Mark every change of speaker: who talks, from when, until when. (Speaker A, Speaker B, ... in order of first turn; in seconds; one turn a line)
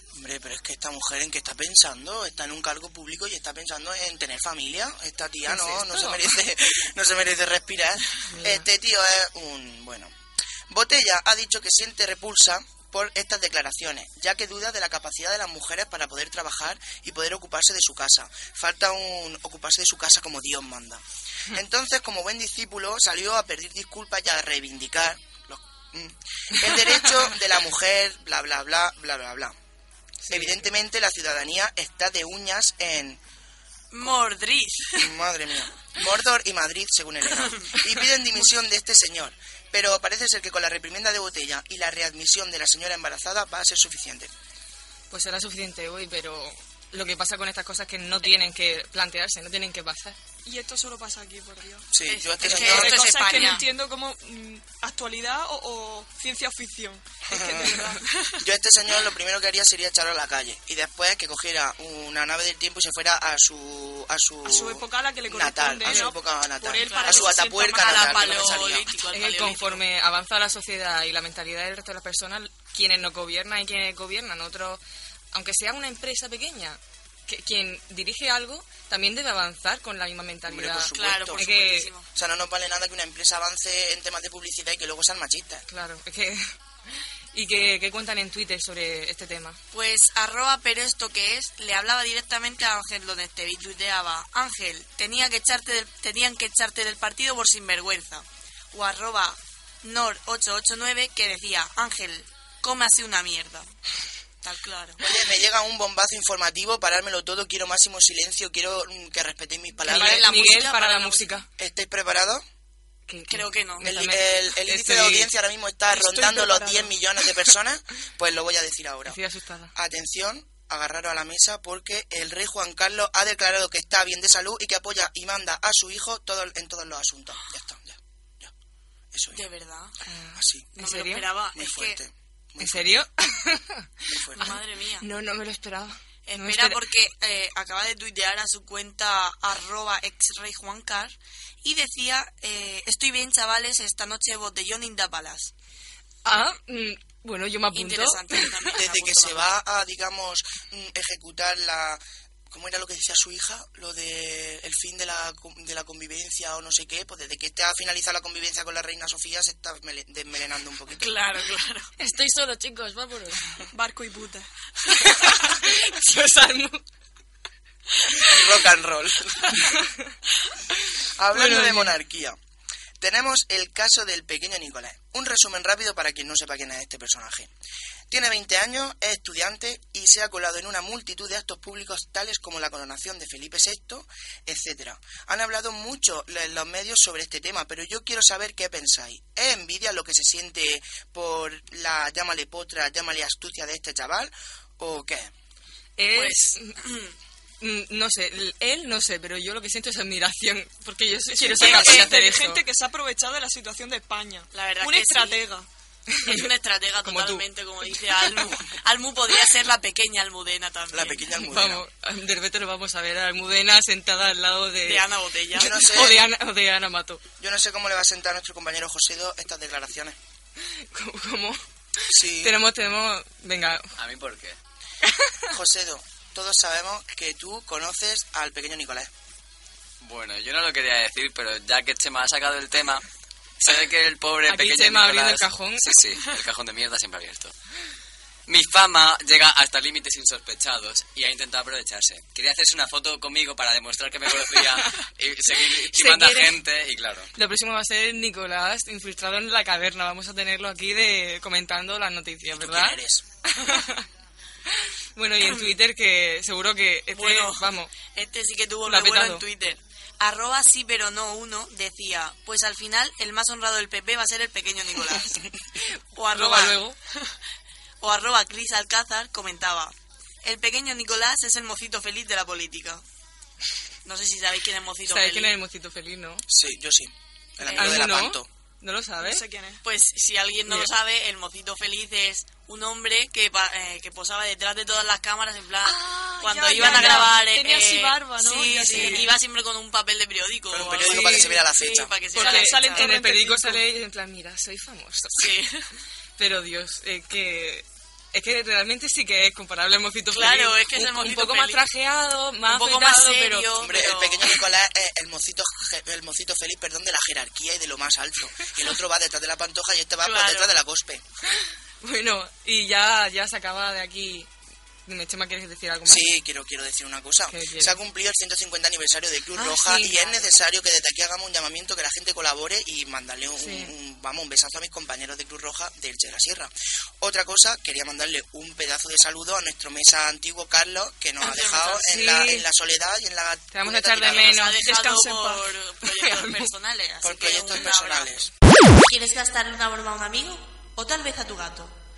Speaker A: 0.1-10.1
Speaker B: 5.5-6.2
Speaker B: 8.3-8.7
Speaker A: 10.7-29.6
Speaker B: 30.2-30.7
Speaker A: 30.3-33.2
Speaker C: 33.9-35.1
Speaker A: 35.0-44.3
Speaker C: 37.4-37.7
Speaker B: 45.1-50.2
Speaker D: 50.5-51.9
Speaker A: 51.9-53.4
Speaker C: 52.0-53.6
Speaker D: 52.5-58.4
Speaker A: 57.3-68.9
Speaker D: 64.5-68.5
Speaker C: 66.8-69.8
Speaker B: 69.1-74.8
Speaker B: 75.3-81.9
Speaker A: 80.5-81.5
Speaker C: 81.0-82.1
Speaker A: 82.2-85.7
Speaker B: 85.7-89.6
Speaker C: 89.7-103.7
Speaker C: 104.4-105.0
Speaker A: 105.0-110.3
Speaker C: 109.8-111.3
Speaker B: 109.9-111.5
Speaker A: 111.6-112.4
Speaker B: 113.1-115.3
Speaker C: 113.3-113.8
Speaker A: 113.8-119.2
Speaker B: 116.0-116.8
Speaker B: 119.1-119.7
Speaker A: 119.8-128.5
Speaker A: 129.1-129.4
Speaker C: 129.3-129.9
Speaker B: 130.1-131.3
Speaker A: 130.4-130.7
Speaker C: 130.8-132.0
Speaker A: 131.6-133.0
Speaker B: 132.6-136.8
Speaker A: 134.1-134.5
Speaker C: 134.4-135.1
Speaker C: 136.3-145.5
Speaker B: 146.2-148.7
Speaker C: 147.7-149.6
Speaker A: 148.8-161.1
Speaker C: 161.0-161.9
Speaker B: 162.0-163.5
Speaker D: 163.7-164.5
Speaker B: 164.9-166.8
Speaker A: 168.2-169.7
Speaker B: 169.6-170.1
Speaker A: 171.2-172.4
Speaker B: 171.3-171.9
Speaker A: 173.0-177.5
Speaker A: 178.1-195.3
Speaker B: 196.0-196.8
Speaker C: 196.2-197.1
Speaker B: 197.6-202.6
Speaker D: 201.4-205.7
Speaker A: 201.5-201.9
Speaker C: 204.5-205.4
Speaker B: 206.1-206.5
Speaker C: 206.2-211.3
Speaker B: 207.1-207.4
Speaker A: 210.9-211.8
Speaker B: 211.4-215.0
Speaker C: 214.8-215.9
Speaker A: 215.6-216.3
Speaker B: 215.6-217.2
Speaker A: 217.4-220.2
Speaker B: 220.7-221.6
Speaker A: 222.1-222.6
Speaker B: 222.1-223.9
Speaker E: 224.0-224.6
Speaker B: 225.1-225.4
Speaker A: 225.5-229.1
Speaker E: 230.0-233.0
Speaker E: 233.6-237.5
Speaker B: 234.5-236.0
Speaker E: 238.5-247.3
Speaker B: 245.7-246.6
Speaker B: 247.3-254.0
Speaker A: 252.6-253.2
Speaker B: 254.8-257.9
Speaker C: 255.4-255.8
Speaker C: 257.1-265.4
Speaker B: 258.9-259.4
Speaker C: 266.1-267.3
Speaker B: 266.3-267.0
Speaker C: 268.0-273.0
Speaker C: 274.1-275.6
Speaker B: 275.1-276.4
Speaker A: 276.5-278.5
Speaker C: 277.6-278.0
Speaker B: 277.8-279.4
Speaker D: 279.2-279.8
Speaker C: 279.8-293.1
Speaker D: 285.9-289.4
Speaker B: 286.8-287.3
Speaker B: 288.9-289.2
Speaker A: 290.7-292.2
Speaker B: 291.1-291.6
Speaker D: 292.3-293.8
Speaker B: 292.4-295.5
Speaker C: 295.4-295.9
Speaker B: 296.4-303.7
Speaker C: 300.3-301.8
Speaker C: 302.7-304.6
Speaker A: 303.8-311.2
Speaker C: 310.2-310.7
Speaker B: 312.0-314.5
Speaker B: 315.1-316.3
Speaker A: 316.1-334.5
Speaker B: 317.5-318.0
Speaker B: 319.6-320.5
Speaker B: 323.6-323.9
Speaker C: 331.4-332.0
Speaker B: 332.0-332.7
Speaker B: 333.7-335.4
Speaker C: 334.3-338.5
Speaker D: 335.0-335.6
Speaker B: 336.1-336.7
Speaker A: 337.2-338.5
Speaker C: 339.0-341.9